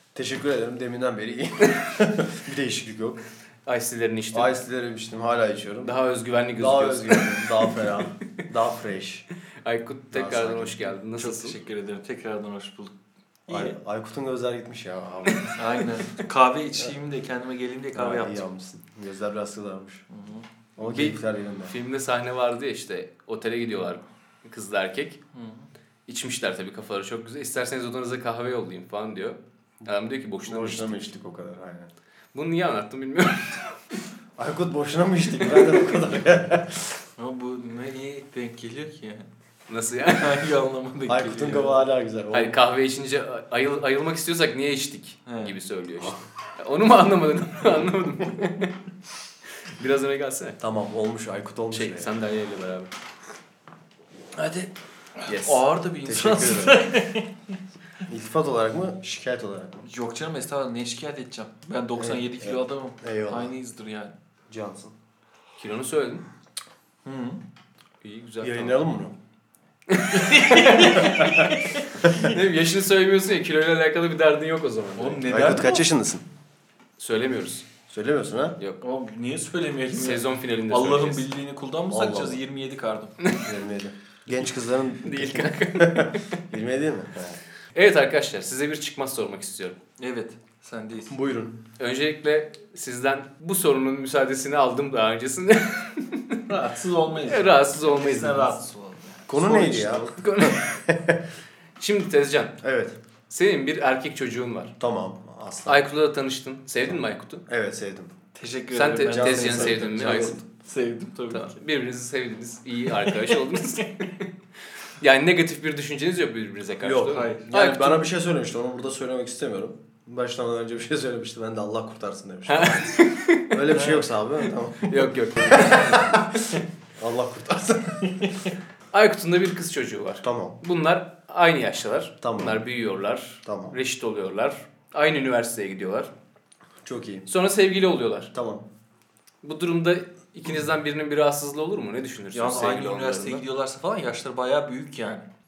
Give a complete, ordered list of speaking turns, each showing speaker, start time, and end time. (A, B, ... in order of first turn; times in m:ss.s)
0:00.1-0:03.2 A
0:03.6-0:04.5 B
0:04.3-0:05.9 A
0:05.8-0:07.4 B
0:06.6-0:09.2 A
0:09.6-0:11.6 B
0:10.1-0:10.8 A
0:11.2-0:12.9 C
0:13.5-0:13.7 C
0:13.5-0:15.6 A
0:15.5-0:18.4 C
0:17.9-0:20.0 A
0:20.1-0:20.4 C
0:20.8-0:21.7 A
0:20.8-0:25.2 B
0:25.3-0:25.7 C
0:26.1-0:31.0 B
0:30.4-0:31.9 A
0:32.3-0:33.6 B
0:34.4-0:36.9 A
0:37.2-0:39.3 C
0:39.7-0:40.4 B
0:40.2-0:41.8 C
0:41.1-0:42.5 A
0:42.3-0:48.7 B
0:45.2-0:45.5 C
0:49.8-0:50.6 B
0:50.6-0:52.1 A
0:51.7-0:52.9 B
0:54.4-0:54.7 B
0:55.2-0:55.6 B
0:55.4-0:57.3 C
0:56.0-0:56.8 A
0:58.0-0:59.8 A
0:59.8-1:04.1 C
1:02.0-1:03.5 A
1:04.5-1:04.9 A
1:05.6-1:06.2 B
1:07.0-1:07.4 C
1:08.0-1:08.8 B
1:08.4-1:09.1 A
1:09.9-1:15.2 B
1:10.2-1:11.1 C
1:11.0-1:11.4 A
1:15.0-1:15.8 C
1:15.3-1:16.2 A
1:17.0-1:17.7 B
1:17.9-1:18.6 A
1:18.8-1:23.1 C
1:19.9-1:21.2 B
1:21.9-1:22.4 A
1:23.4-1:27.4 A
1:25.0-1:26.4 B
1:27.7-1:29.8 B
1:30.0-1:31.1 C
1:31.1-1:31.6 A
1:31.8-1:36.4 B
1:36.5-1:40.0 C
1:37.2-1:38.5 B
1:39.3-1:41.2 A
1:39.8-1:40.8 B
1:41.8-1:42.5 B
1:42.6-1:43.0 A
1:43.3-1:44.7 B
1:44.8-1:45.8 A
1:45.7-1:47.4 B
1:47.5-1:48.1 A
1:48.3-1:51.6 C
1:48.7-1:50.4 B
1:49.1-1:50.4 A
1:51.3-1:54.3 B
1:53.0-1:53.8 C
1:55.0-1:58.0 B
1:56.8-1:57.5 C
1:57.4-2:03.0 A
2:02.5-2:03.5 B
2:03.5-2:06.3 A
2:03.7-2:04.1 C
2:04.8-2:06.5 B
2:07.0-2:08.2 A
2:08.9-2:16.1 B
2:10.2-2:10.6 A
2:12.2-2:12.6 A
2:13.4-2:13.7 A
2:16.8-2:17.3 A
2:17.3-2:18.3 B
2:18.3-2:18.6 A
2:19.4-2:23.4 B
2:22.3-2:25.2 C